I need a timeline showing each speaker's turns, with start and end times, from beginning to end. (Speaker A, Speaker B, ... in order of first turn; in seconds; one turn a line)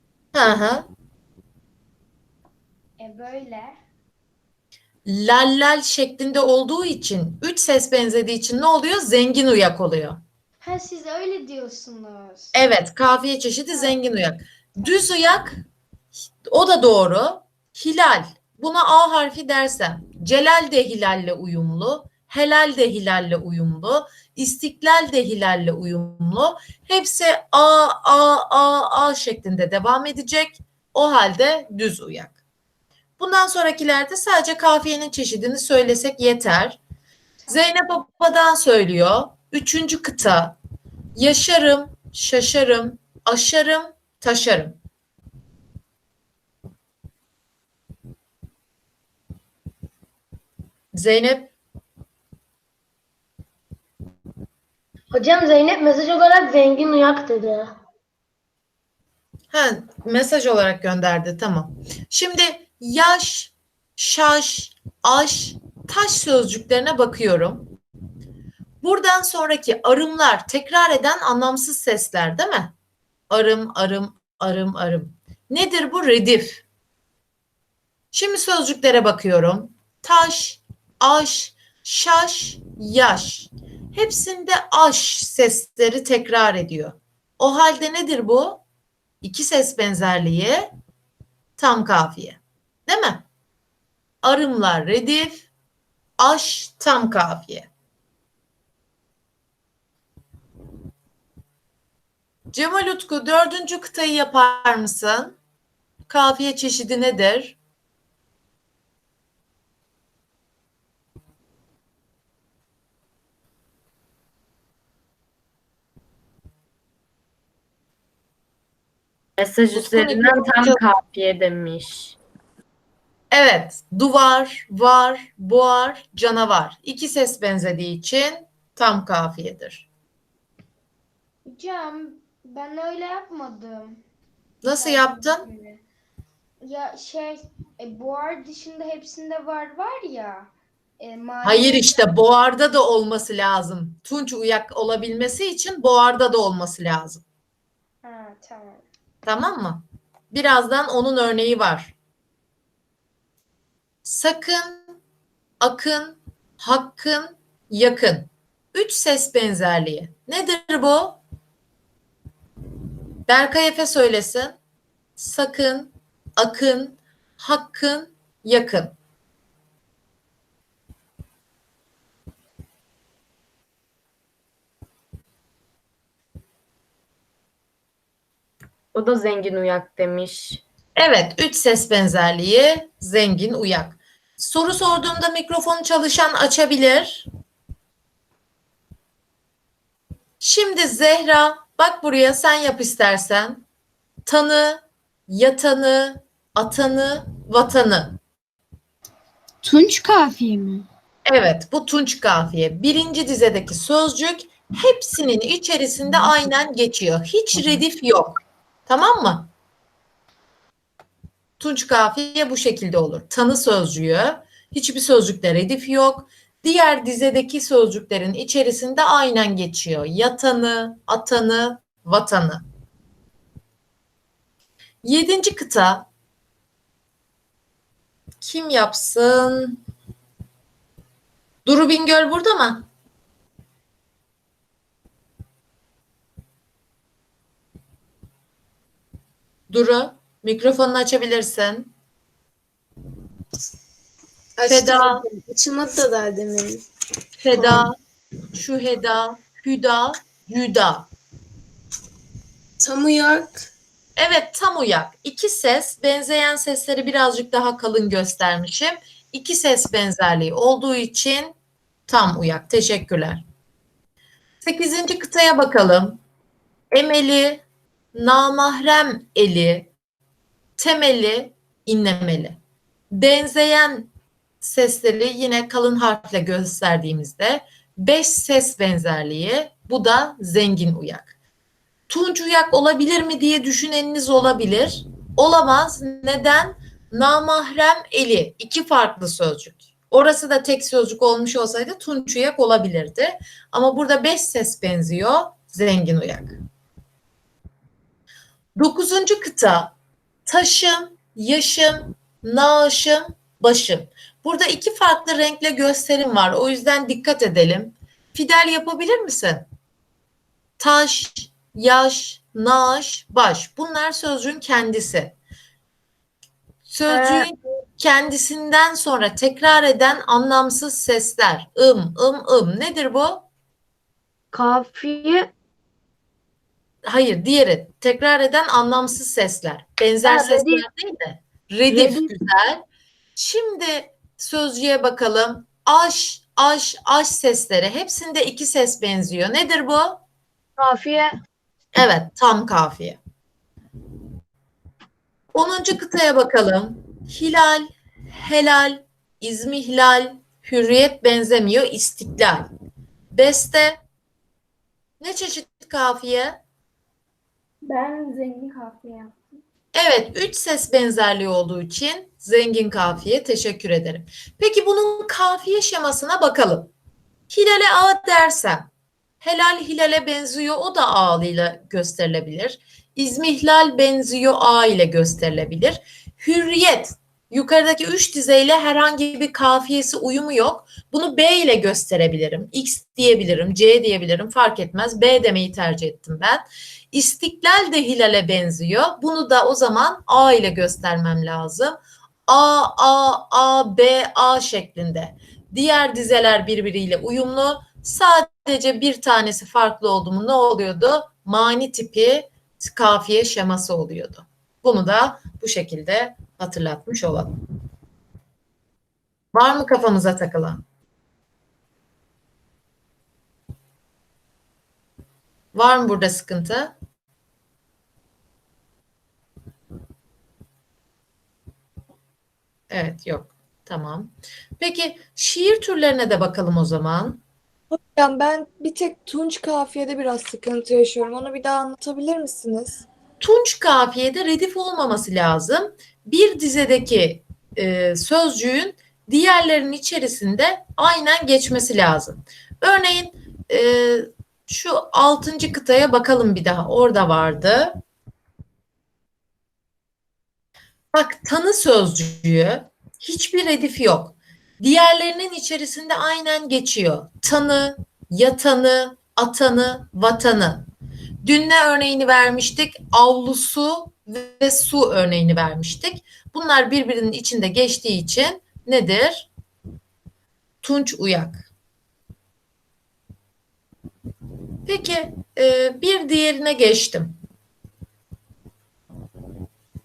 Speaker A: 0.3-0.8
Speaker B: 3.0-3.8
Speaker A: 5.0-10.2
Speaker B: 10.6-12.5
Speaker A: 12.5-15.6
Speaker B: 13.7-14.1
Speaker A: 16.4-32.3
Speaker A: 33.2-36.8
Speaker A: 37.5-40.5
Speaker A: 41.1-44.8
Speaker A: 50.9-51.5
Speaker C: 55.1-57.7
Speaker A: 59.5-67.7
Speaker A: 68.8-72.7
Speaker A: 73.3-76.6
Speaker A: 78.1-88.6
Speaker A: 89.2-90.7
Speaker A: 91.6-93.2
Speaker A: 94.2-95.5
Speaker A: 96.2-97.7
Speaker A: 102.5-105.3
Speaker A: 106.1-107.6
Speaker D: 119.4-122.2
Speaker A: 119.7-120.8
Speaker A: 123.3-129.9
Speaker B: 131.4-134.0
Speaker A: 134.6-135.4
Speaker B: 134.7-135.8
Speaker B: 136.6-142.1
Speaker A: 141.4-147.2
Speaker B: 148.0-148.8
Speaker A: 149.2-151.9
Speaker A: 154.0-154.9
Speaker A: 155.6-161.2
Speaker A: 163.3-164.6
Speaker A: 165.2-168.9
Speaker D: 178.9-180.6
Speaker A: 180.9-187.2
Speaker A: 190.4-193.6
Speaker A: 194.2-198.2
Speaker B: 199.7-200.8
Speaker A: 201.3-209.5
Speaker A: 211.6-222.6
Speaker A: 225.0-226.1
Speaker A: 228.4-229.8
Speaker A: 231.6-232.8
Speaker A: 239.7-241.9
Speaker E: 244.6-246.8
Speaker A: 244.7-245.2
Speaker A: 247.4-247.9
Speaker A: 248.5-251.1
Speaker E: 252.8-253.6
Speaker A: 254.2-261.5
Speaker A: 262.1-263.4
Speaker A: 264.6-266.2
Speaker A: 266.9-267.6
Speaker A: 268.1-269.9
Speaker A: 270.8-272.6
Speaker A: 273.1-274.1
Speaker A: 274.6-281.3
Speaker A: 282.1-296.6
Speaker A: 298.8-299.9
Speaker A: 300.4-309.6
Speaker A: 310.8-315.4
Speaker A: 316.8-323.4
Speaker D: 317.1-317.4
Speaker D: 324.5-325.5
Speaker A: 327.1-332.8
Speaker D: 330.2-330.9
Speaker D: 331.9-332.3
Speaker A: 333.4-340.2
Speaker D: 340.8-341.3
Speaker A: 341.9-343.2
Speaker A: 345.5-352.7
Speaker A: 353.3-354.0
Speaker A: 355.2-356.6
Speaker B: 358.2-359.1
Speaker A: 359.9-366.9
Speaker A: 367.5-368.9
Speaker A: 369.4-407.5
Speaker A: 409.5-410.8
Speaker A: 415.7-416.9
Speaker A: 422.9-427.4
Speaker F: 427.9-433.0
Speaker A: 433.4-448.0
Speaker A: 451.1-460.9
Speaker A: 461.4-469.5
Speaker A: 470.8-471.6
Speaker A: 474.9-477.4